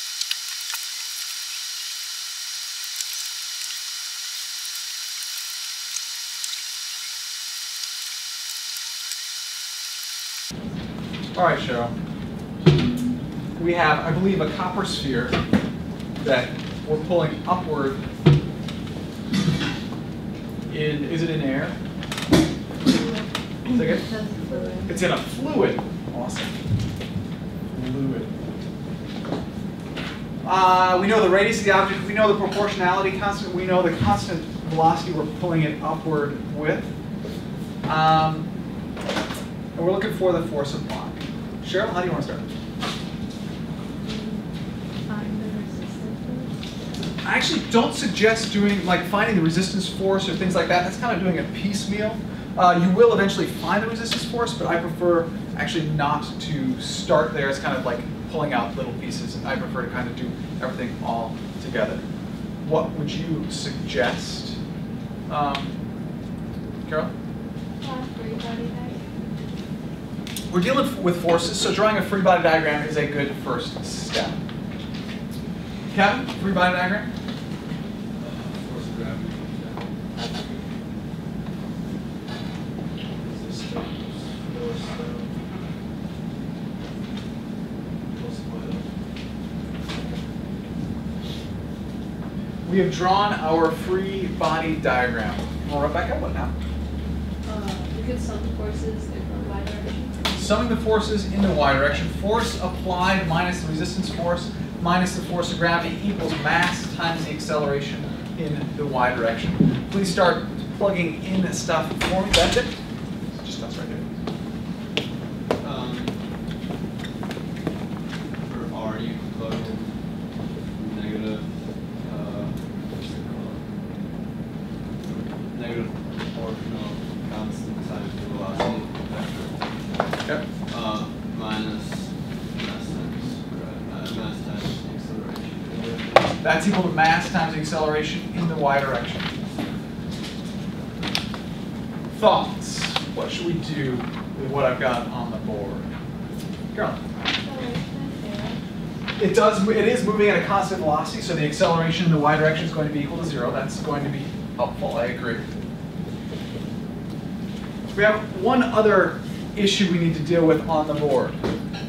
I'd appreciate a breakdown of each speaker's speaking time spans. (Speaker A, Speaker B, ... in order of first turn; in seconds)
Speaker A: 11.3-11.9, 13.6-15.3, 16.2-18.0, 20.7-21.8, 23.7-24.1, 24.9-26.5, 27.7-28.3, 30.4-37.0, 37.8-38.5, 39.8-42.5, 47.2-62.0, 62.6-64.6, 65.3-65.7, 66.9-67.1, 70.5-74.4, 75.9-77.1, 92.6-96.5, 100.3-112.8, 113.4-114.1, 136.4-139.3, 142.1-145.9, 146.7-147.0, 149.2-155.4, 157.9-161.4
Speaker B: 23.0-24.9, 44.0-44.4, 45.1-46.5, 67.8-69.2, 89.9-90.2, 97.4-100.2, 147.4-148.6
Speaker C: 78.2-79.9, 83.2-85.3, 88.1-88.8, 115.6-116.2, 118.5-119.9, 120.8-123.7, 125.4-130.0, 130.7-136.3